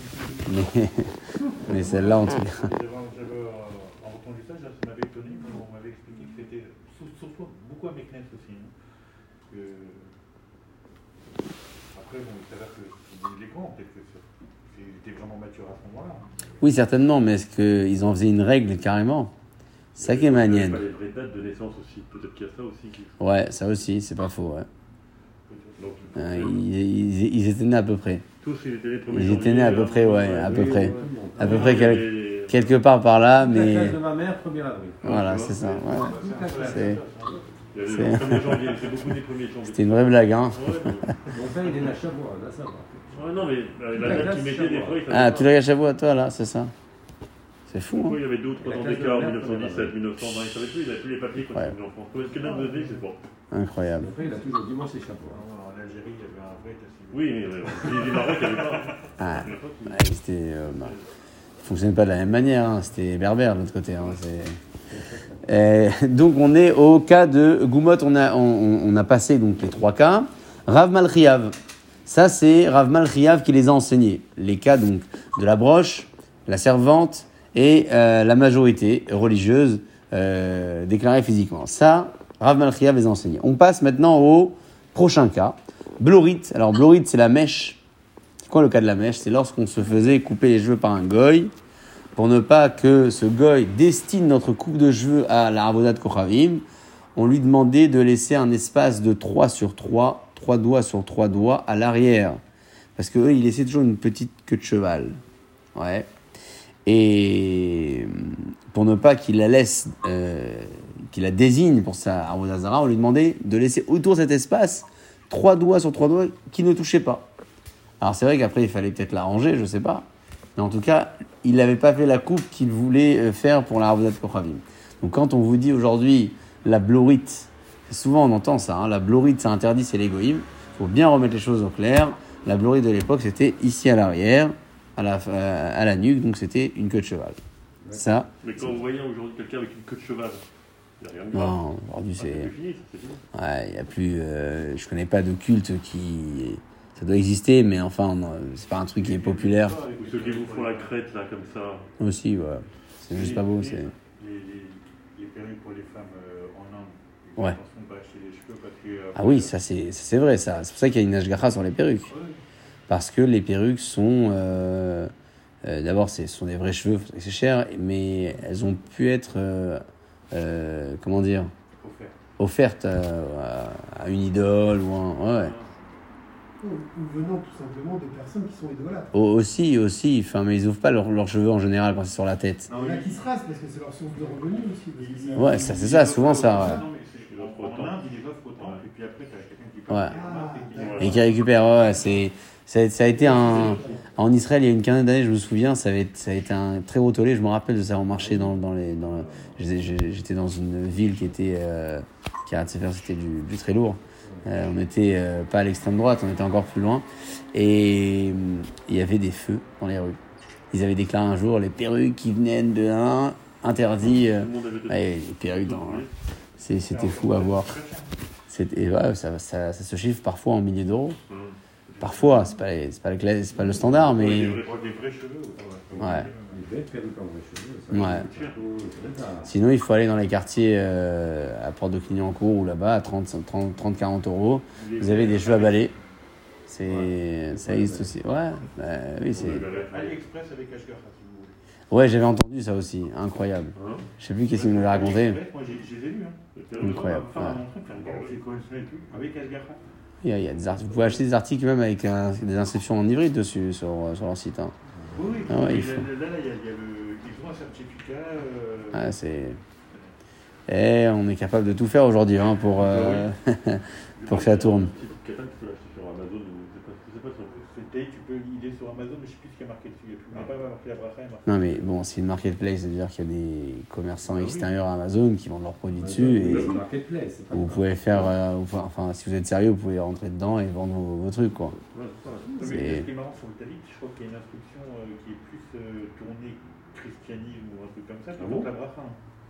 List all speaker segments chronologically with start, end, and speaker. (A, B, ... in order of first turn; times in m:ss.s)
0:00.4-0:02.7 A
0:01.7-0:08.7 B
0:09.5-0:10.1 B
0:11.9-0:16.6 B
0:16.6-0:19.3 A
0:20.0-0:20.8 A
0:20.0-0:23.2 C
0:23.2-0:24.7 A
0:25.5-0:26.2 B
0:25.8-0:26.6 C
0:26.2-0:28.2 A
0:28.4-0:32.8 C
0:29.1-0:34.0 A
0:30.4-0:32.0 D
0:33.4-0:35.4 D
0:35.0-0:35.9 C
0:35.0-0:37.0 A
0:36.0-0:37.0 D
0:36.0-0:37.5 B
0:37.7-0:41.2 C
0:37.9-0:38.8 A
0:39.7-0:41.2 A
0:41.3-0:43.2 D
0:41.6-0:41.9 B
0:43.1-0:45.5 C
0:44.0-0:45.0 D
0:45.1-0:46.7 A
0:47.7-0:48.2 A
0:47.9-0:53.2 C
0:48.6-0:50.0 D
0:52.4-0:53.0 B
0:53.5-0:54.1 A
0:54.0-0:55.4 D
0:55.3-0:59.1 B
0:57.1-1:00.0 C
0:59.2-1:01.0 A
1:01.6-1:04.6 A
1:04.9-1:05.4 D
1:05.4-1:11.6 A
1:12.1-1:27.8 A
1:28.4-1:31.5 A
1:32.2-1:36.6 A
1:37.2-1:42.4 A
1:43.0-1:45.2 A
1:45.8-1:46.1 A
1:46.9-1:57.3 A
1:58.0-2:17.4 A
2:17.8-2:18.2 D
2:17.9-2:18.7 A
2:18.4-2:20.4 C
2:21.0-2:21.6 C
2:21.3-2:22.5 A
2:22.2-2:23.2 C
2:23.3-2:29.8 A
2:29.0-2:30.9 B
2:30.0-2:31.9 C
2:32.0-2:33.9 A
2:33.1-2:33.9 C
2:34.1-2:39.5 B
2:39.2-2:42.1 A
2:42.1-2:42.4 B
2:42.9-2:45.1 A
2:45.6-2:51.5 A
2:51.8-2:52.2 B
2:52.4-2:55.5 A
2:55.3-2:55.7 C
2:56.6-2:59.2 E
2:59.1-3:02.7 A
3:02.7-3:03.3 B
3:02.7-3:06.8 E
3:04.2-3:11.5 B
3:05.4-3:06.8 A
3:07.3-3:08.0 C
3:08.6-3:08.8 C
3:09.9-3:10.1 A
3:10.1-3:11.1 E
3:10.8-3:11.2 C
3:11.0-3:30.2 A
3:13.1-3:14.0 E
3:30.7-3:36.1 A
3:34.1-3:36.1 C
3:36.6-3:37.8 A
3:36.9-3:38.2 B
3:38.5-3:41.2 A
3:41.3-3:42.5 C
3:42.0-3:44.6 A
3:43.6-3:44.1 D
3:43.8-3:45.0 C
3:44.2-3:46.6 B
3:46.0-3:46.3 A
3:46.5-3:49.5 D
3:47.9-3:48.3 A
3:47.9-3:48.6 C
3:49.4-3:55.9 A
3:54.8-3:56.0 B
3:56.7-3:59.7 A
3:56.9-3:58.1 D
3:59.3-4:00.2 C
3:59.5-4:01.6 B
4:01.9-4:05.4 A
4:03.8-4:04.1 C
4:04.5-4:09.8 B
4:06.6-4:08.4 C
4:06.8-4:07.6 A
4:10.2-4:14.7 A
4:15.1-4:19.1 B
4:15.5-4:16.0 A
4:18.9-4:19.6 A
4:20.7-4:24.9 A
4:22.8-4:23.3 C
4:24.2-4:27.5 C
4:27.5-4:31.9 B
4:31.5-4:36.8 A
4:34.2-4:34.7 C
4:36.0-4:38.3 D
4:36.4-4:36.8 C
4:37.5-4:41.8 A
4:41.9-4:42.7 C
4:42.6-4:49.2 B
4:42.6-4:43.1 A
4:48.4-4:48.7 C